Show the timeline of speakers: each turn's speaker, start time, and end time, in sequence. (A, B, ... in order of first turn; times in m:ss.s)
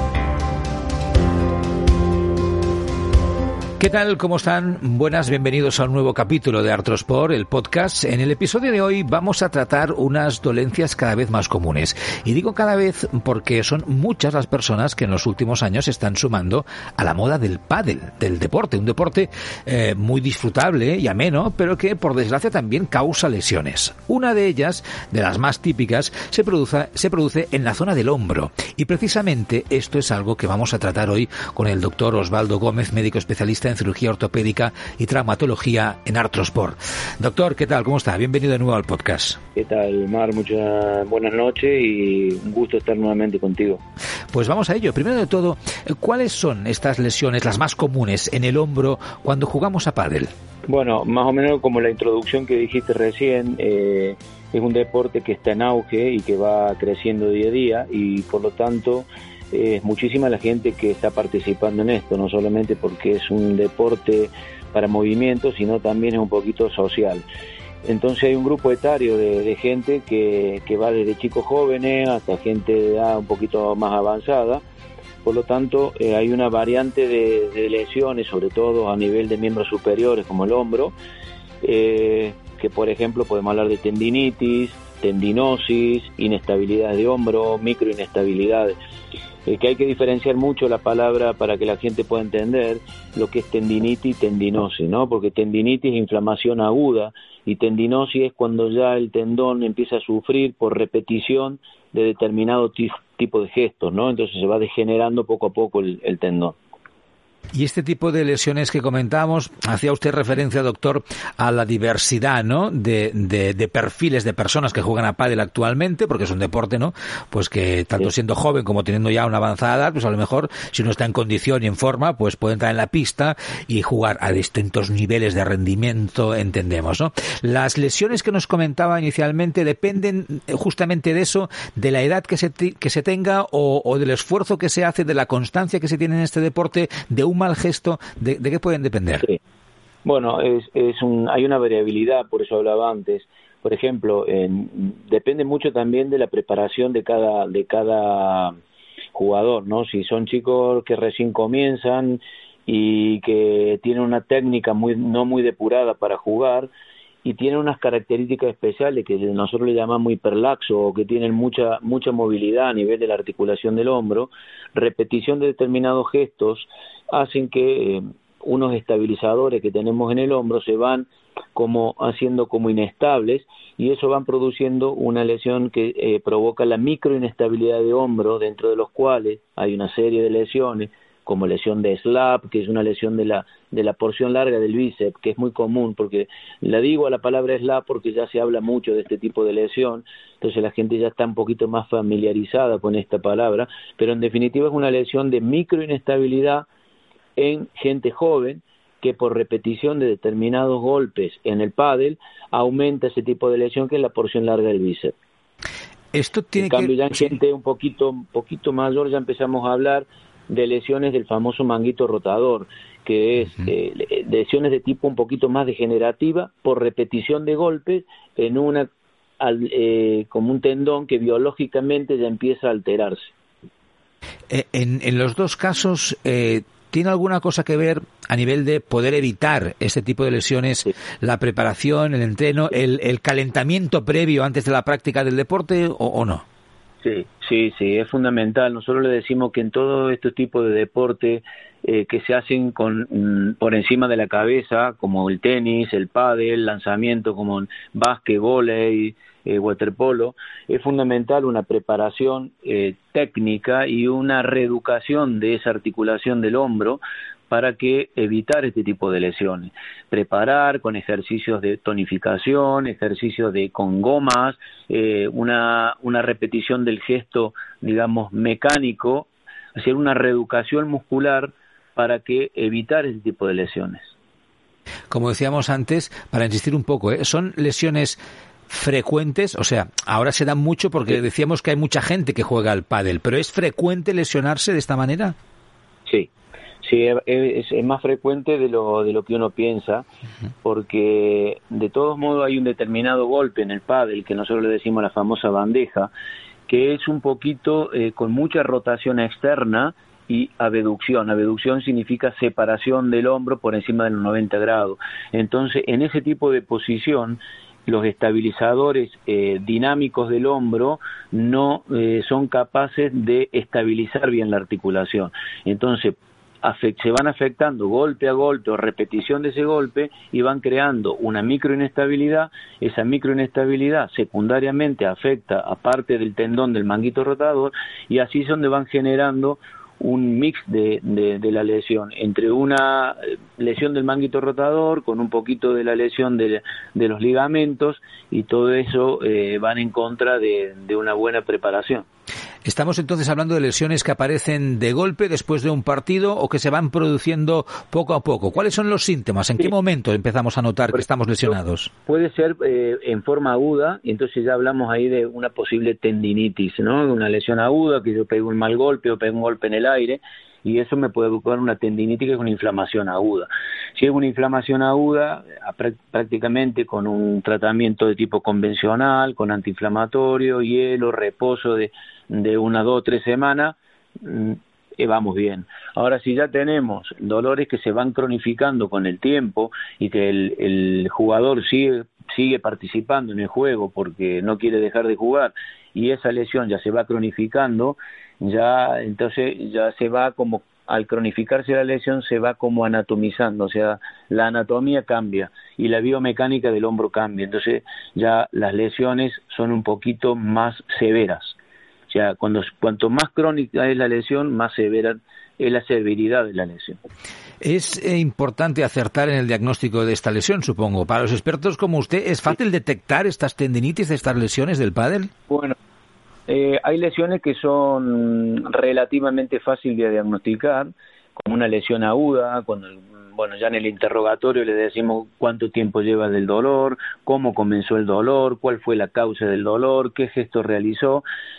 0:03.8-0:39.4 A
0:39.5-0:43.8 B
0:44.3-0:50.3 A
0:50.6-1:07.2 B
1:07.8-1:14.6 B
1:15.2-1:20.9 B
1:21.6-1:28.8 B
1:29.4-1:46.6 B
1:47.5-2:19.3 A
2:20.0-2:28.6 B
2:29.1-2:36.7 B
2:37.2-3:16.7 B
3:17.4-3:25.1 B
3:26.1-3:27.3 A
3:26.6-3:43.3 B
3:44.5-3:56.4 A
3:57.0-4:34.1 B
4:35.1-4:45.4 A
4:46.8-4:50.0 B
4:50.6-4:56.1 B
4:56.7-5:42.0 B
5:42.6-5:51.9 A
5:52.0-6:41.6 B
6:42.1-6:47.0 B
6:47.6-6:55.3 A
6:55.5-6:55.8 B
6:56.5-7:11.2 B